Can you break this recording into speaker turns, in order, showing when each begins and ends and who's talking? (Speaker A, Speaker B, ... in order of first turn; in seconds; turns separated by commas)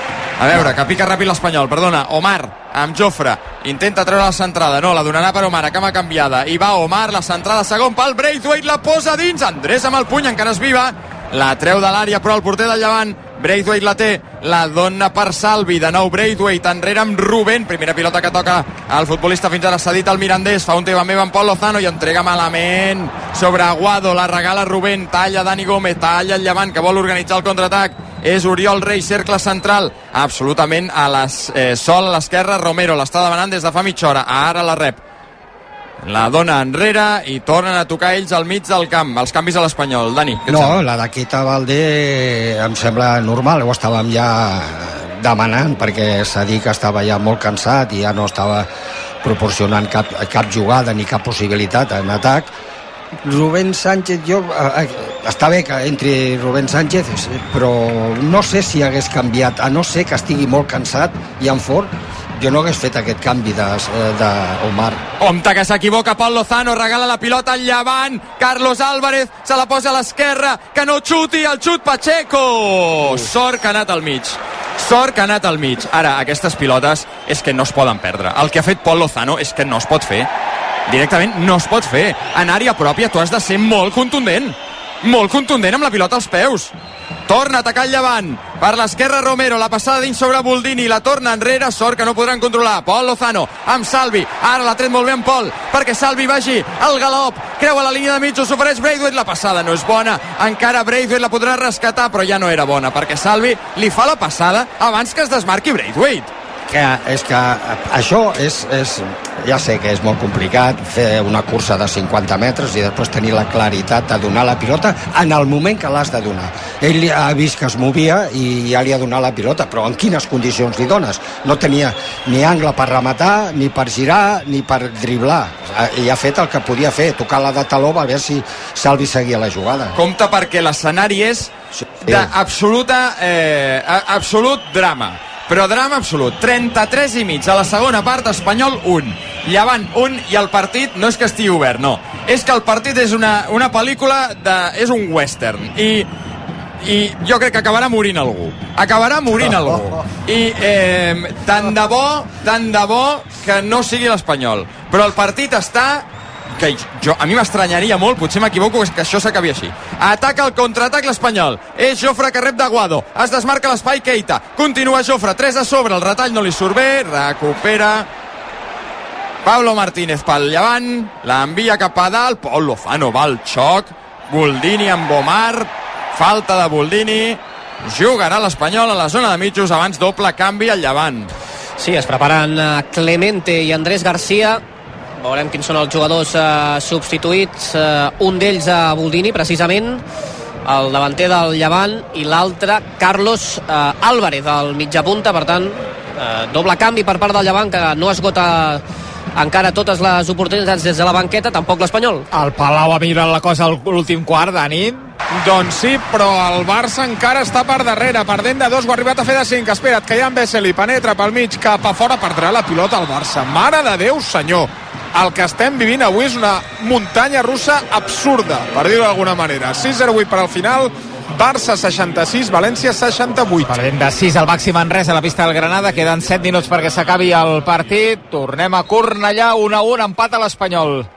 Speaker A: 0.4-35.0, Speaker A: 36.0-40.8, Speaker B: 40.5-48.7, Speaker B: 49.2-52.5, Speaker B: 53.2-65.0, Speaker A: 65.2-80.3, Speaker A: 80.9-86.7, Speaker A: 87.3-106.3, Speaker B: 106.7-130.0, Speaker A: 129.9-131.5, Speaker B: 131.8-132.3, Speaker A: 132.0-146.1, Speaker A: 146.8-168.1, Speaker A: 169.4-181.3, Speaker C: 181.8-184.6, Speaker C: 185.2-190.0, Speaker C: 190.6-198.8, Speaker C: 199.3-202.2, Speaker D: 202.3-205.1, Speaker E: 205.3-223.8, Speaker D: 223.7-231.1